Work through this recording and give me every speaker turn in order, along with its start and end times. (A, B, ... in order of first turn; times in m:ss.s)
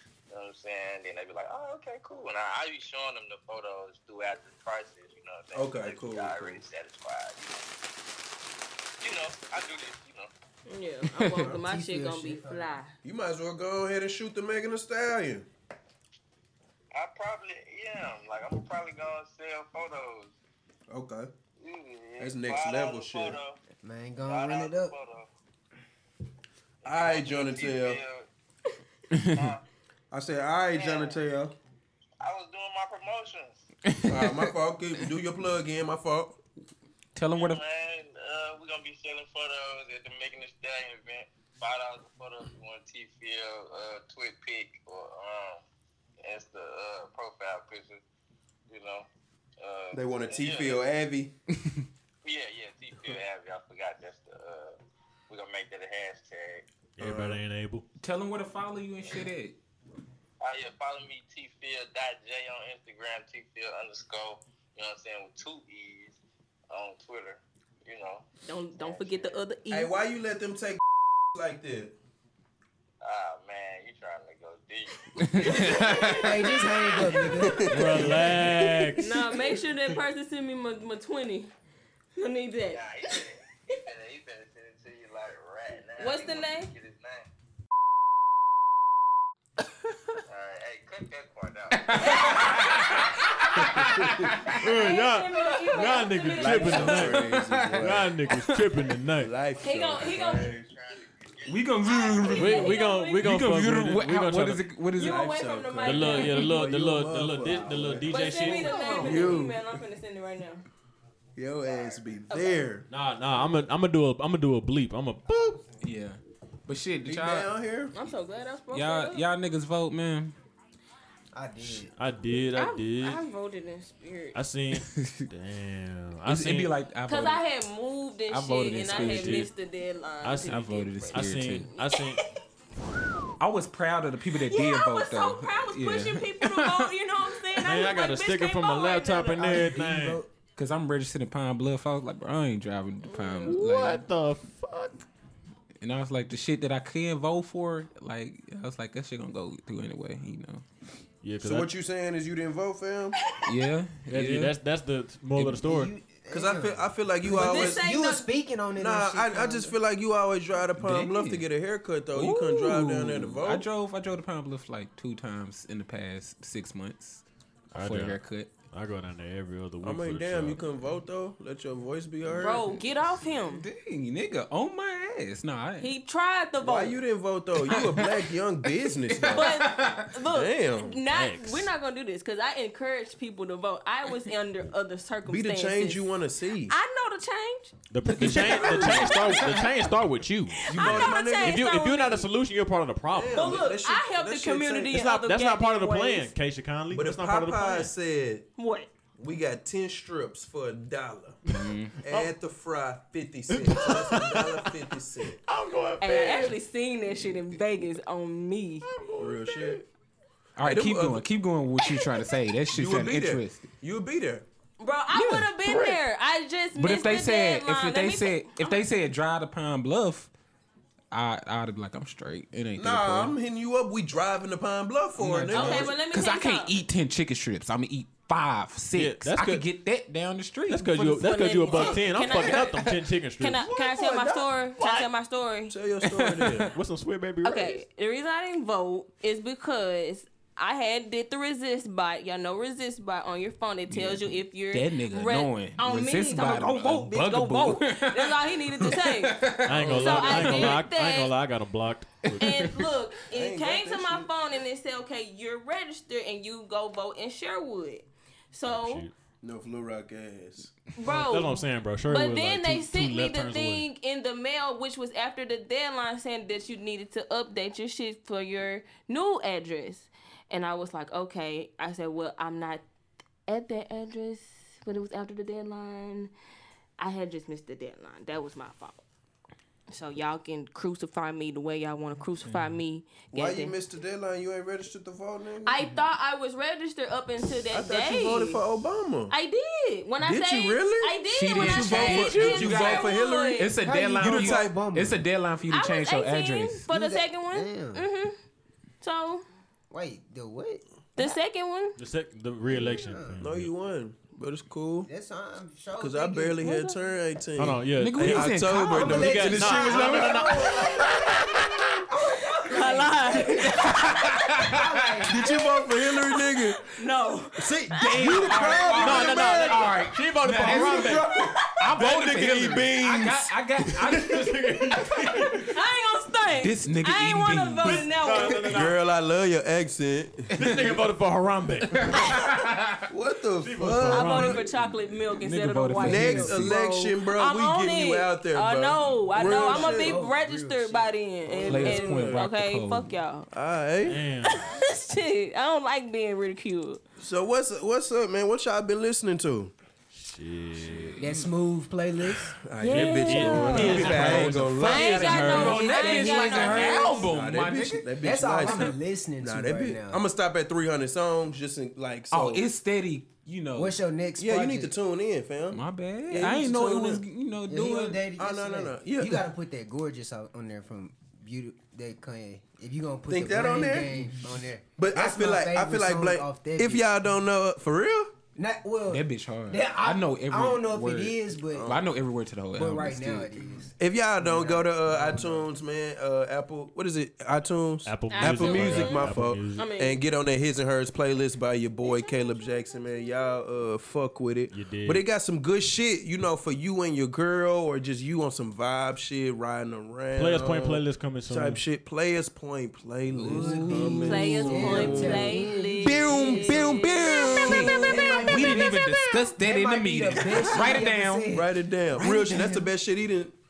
0:00.3-0:07.7 A
0:05.5-0:06.6 B
0:09.0-0:10.3 A
0:10.7-0:12.9 C
0:11.1-0:11.4 D
0:11.5-0:12.7 E
0:13.0-0:15.5 B
0:16.9-0:20.3 A
0:20.9-0:21.3 B
0:21.6-0:23.6 A
0:22.2-0:23.4 B
0:23.8-0:24.9 E
0:24.3-0:25.3 A
0:26.8-0:28.3 A
0:26.8-0:28.0 B
0:29.1-0:29.5 D
0:29.3-0:29.6 A
0:30.1-0:31.6 B
0:30.7-0:31.2 A
0:32.2-0:33.7 A
0:33.8-0:34.5 D
0:34.1-0:36.4 B
0:37.1-0:37.6 D
0:37.3-0:45.6 A
0:46.2-0:48.0 A
0:48.7-0:49.1 A
0:49.6-0:50.8 A
0:49.9-0:51.3 B
0:52.2-0:54.8 A
0:55.3-0:56.6 A
0:57.0-0:57.8 F
0:57.0-0:57.4 B
0:58.0-0:59.6 D
0:59.0-0:59.3 A
1:00.4-1:06.2 A
1:06.7-1:09.4 A
1:08.4-1:09.9 C
1:09.7-1:10.8 B
1:11.3-1:12.0 B
1:13.0-1:17.2 A
1:15.2-1:16.2 D
1:15.4-1:17.2 C
1:16.2-1:18.0 E
1:17.3-1:18.4 B
1:17.7-1:19.1 F
1:19.0-1:21.5 C
1:22.2-1:22.8 C
1:22.7-1:27.2 A
1:26.0-1:26.7 C
1:30.3-1:33.0 A
1:31.7-1:33.0 D
1:32.0-1:33.5 C
1:33.6-1:34.6 D
1:34.6-1:37.0 C
1:34.6-1:37.3 F
1:36.3-1:38.1 B
1:36.9-1:38.7 D
1:37.8-1:39.3 F
1:39.2-1:40.6 B
1:39.6-1:40.6 C
1:39.9-1:42.6 A
1:41.4-1:45.2 D
1:41.8-1:43.3 C
1:42.3-1:44.6 F
1:44.9-1:46.5 C
1:45.0-1:49.6 B
1:45.8-1:49.0 F
1:48.1-1:50.6 C
1:48.7-1:49.3 D
1:51.4-1:52.8 B
1:52.3-1:52.6 C
1:52.9-1:55.6 F
1:55.8-1:57.5 D
1:57.0-1:57.9 B
1:57.9-1:59.2 C
1:58.7-2:00.3 D
2:01.3-2:01.9 E
2:01.7-2:03.2 F
2:02.5-2:04.4 C
2:04.3-2:06.7 F
2:04.7-2:05.3 D
2:06.2-2:07.4 D
2:07.0-2:12.0 C
2:08.3-2:09.5 D
2:08.9-2:09.5 F
2:10.2-2:12.2 F
2:10.5-2:11.7 D
2:13.4-2:16.9 D
2:14.3-2:19.7 C
2:17.6-2:20.2 F
2:19.3-2:20.3 E
2:20.6-2:24.0 D
2:23.1-2:23.6 C
2:23.4-2:25.0 F
2:25.8-2:30.6 D
2:31.2-2:31.7 F
2:31.4-2:33.2 B
2:33.4-2:34.5 D
2:34.1-2:35.9 F
2:35.6-2:39.8 E
2:36.3-2:37.8 B
2:37.3-2:38.3 C
2:38.8-2:43.7 B
2:40.8-2:41.5 D
2:42.1-2:48.5 D
2:47.7-2:48.2 F
2:48.7-2:50.7 F
2:49.8-2:52.8 B
2:52.3-2:53.7 C
2:53.2-2:55.9 D
2:55.8-2:57.0 C
2:56.6-2:59.6 B
2:57.6-3:00.1 D
2:59.3-3:06.1 C
3:00.2-3:01.0 B
3:01.1-3:01.7 F
3:05.2-3:06.7 B
3:06.7-3:07.7 C
3:07.9-3:13.6 F
3:08.1-3:09.6 D
3:08.2-3:09.7 C
3:08.3-3:09.1 B
3:10.6-3:12.3 C
3:10.7-3:11.7 B
3:13.1-3:15.0 B
3:13.3-3:16.3 C
3:14.9-3:17.9 F
3:16.9-3:18.5 B
3:18.6-3:18.9 C
3:19.2-3:21.4 B
3:21.5-3:22.0 D
3:22.0-3:25.4 B
3:23.5-3:24.7 F
3:25.4-3:26.5 F
3:26.0-3:28.8 C
3:28.9-3:29.7 F
3:29.2-3:29.8 B
3:30.6-3:33.7 D
3:30.6-3:31.3 B
3:32.7-3:34.4 B
3:34.8-3:38.8 C
3:35.1-3:36.0 D
3:36.7-3:40.3 D
3:41.1-3:43.3 D
3:42.8-3:46.0 B
3:45.1-3:53.0 D
3:45.5-3:46.7 C
3:48.9-3:49.6 F
3:50.7-3:53.6 F
3:51.2-3:52.8 C
3:53.4-3:55.7 C
3:53.6-3:54.6 B
3:54.8-3:55.1 F
3:55.7-3:56.7 B
3:56.1-3:56.7 D
3:56.7-3:57.8 F
3:57.4-4:11.3 C
4:03.9-4:10.7 D
4:09.6-4:12.6 F
4:09.7-4:10.7 B
4:12.3-4:12.9 D
4:12.4-4:19.0 C
4:13.3-4:14.3 B
4:18.6-4:19.1 F
4:19.4-4:20.7 B
4:20.9-4:32.8 C
4:21.0-4:23.8 F
4:33.5-4:36.3 C
4:37.0-4:39.0 C
4:39.9-4:43.7 C
4:42.4-4:42.7 D
4:43.3-4:45.8 B
4:45.6-4:48.6 C
4:47.7-4:49.3 B
4:49.3-4:53.7 C
4:50.2-4:54.8 B
4:51.3-4:56.9 D
4:53.8-4:55.2 E
4:55.7-4:58.3 C
4:56.9-4:58.0 E
4:59.0-4:59.4 C
4:59.9-5:00.8 E
5:01.2-5:02.0 C
5:02.0-5:03.7 F
5:02.6-5:03.4 E
5:03.4-5:05.1 B
5:05.0-5:06.9 E
5:06.0-5:10.8 B
5:06.6-5:07.0 C
5:07.6-5:10.9 F
5:08.0-5:10.6 D
5:08.8-5:15.6 E
5:12.6-5:13.8 C
5:13.5-5:15.2 D
5:15.3-5:16.8 B
5:16.3-5:19.3 C
5:17.6-5:19.9 B
5:17.9-5:24.4 D
5:19.0-5:21.3 F
5:20.7-5:24.5 B
5:24.1-5:25.6 F
5:25.7-5:28.6 C
5:26.6-5:28.2 D
5:27.8-5:29.0 F
5:28.6-5:30.7 B
5:30.5-5:31.0 D
5:30.6-5:32.4 F
5:31.9-5:33.1 D
5:33.1-5:34.6 B
5:33.6-5:35.2 F
5:34.1-5:43.5 C
5:35.3-5:36.8 D
5:36.0-5:40.3 B
5:39.3-5:41.1 E
5:41.5-5:42.4 B
5:41.6-5:43.1 D
5:43.5-5:44.2 B
5:44.0-5:44.7 F
5:44.4-5:47.0 C
5:47.2-5:49.7 B
5:50.1-5:51.2 F
5:50.8-5:51.5 D
5:51.2-5:52.6 E
5:52.6-5:55.9 B
5:52.8-5:57.3 C
5:52.9-5:56.0 F
5:53.7-5:58.9 D
5:56.0-5:57.1 E
5:56.5-6:02.7 B
5:58.2-6:00.2 E
6:02.3-6:04.0 D
6:03.8-6:04.9 E
6:04.4-6:07.2 B
6:05.7-6:08.3 D
6:07.7-6:17.2 E
6:08.4-6:09.5 B
6:13.3-6:18.3 B
6:18.5-6:22.0 E
6:19.1-6:23.6 D
6:21.7-6:22.0 B
6:22.7-6:25.7 E
6:24.0-6:48.7 B
6:28.0-6:29.8 F
6:28.3-6:30.2 C
6:32.0-6:33.5 C
6:34.7-6:35.2 F
6:40.3-6:41.8 F
6:43.3-6:52.9 E
6:43.4-6:45.2 D
6:44.2-6:48.8 C
6:48.4-6:51.5 D
6:51.5-6:53.5 B